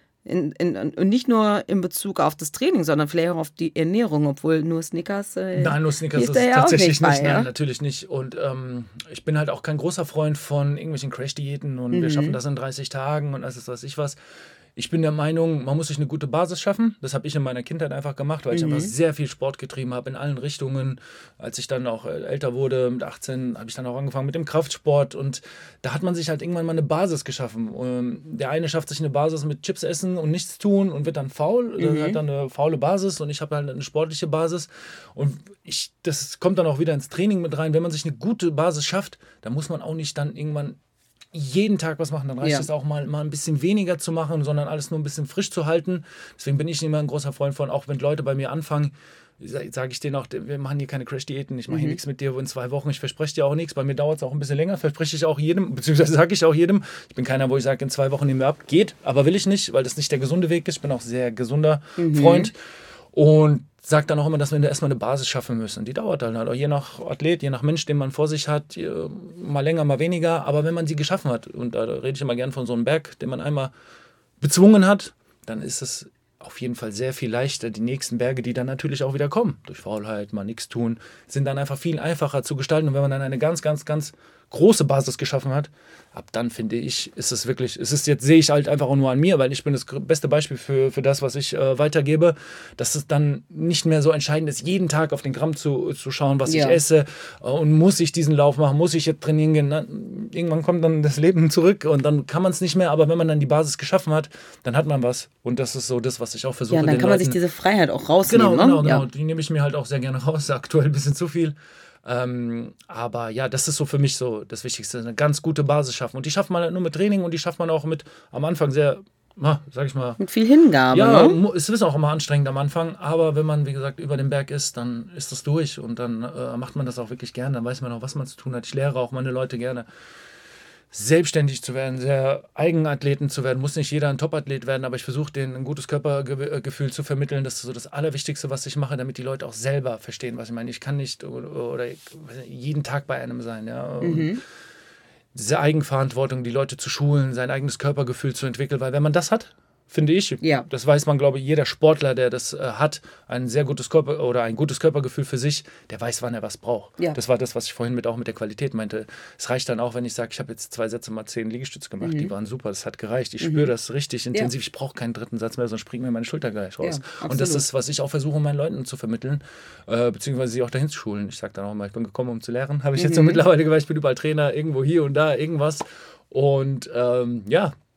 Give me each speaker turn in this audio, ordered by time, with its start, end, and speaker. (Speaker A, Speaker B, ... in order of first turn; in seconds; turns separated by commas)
Speaker A: 0.3-7.5, Speaker B: 5.5-14.2, Speaker A: 11.9-12.4, Speaker B: 14.8-40.8, Speaker A: 18.5-18.9, Speaker A: 31.8-32.2, Speaker B: 41.3-62.5, Speaker A: 42.4-42.7, Speaker A: 51.7-52.0, Speaker A: 62.0-62.5, Speaker B: 63.1-73.7, Speaker B: 74.4-107.4, Speaker A: 96.5-96.8, Speaker A: 106.7-109.1, Speaker B: 108.3-120.2, Speaker A: 120.2-121.4, Speaker B: 120.9-129.9, Speaker B: 130.9-144.4, Speaker A: 144.0-144.4, Speaker B: 145.3-177.8, Speaker A: 150.4-150.7, Speaker A: 162.0-162.3, Speaker A: 163.4-163.7, Speaker A: 166.8-167.6, Speaker A: 172.9-173.4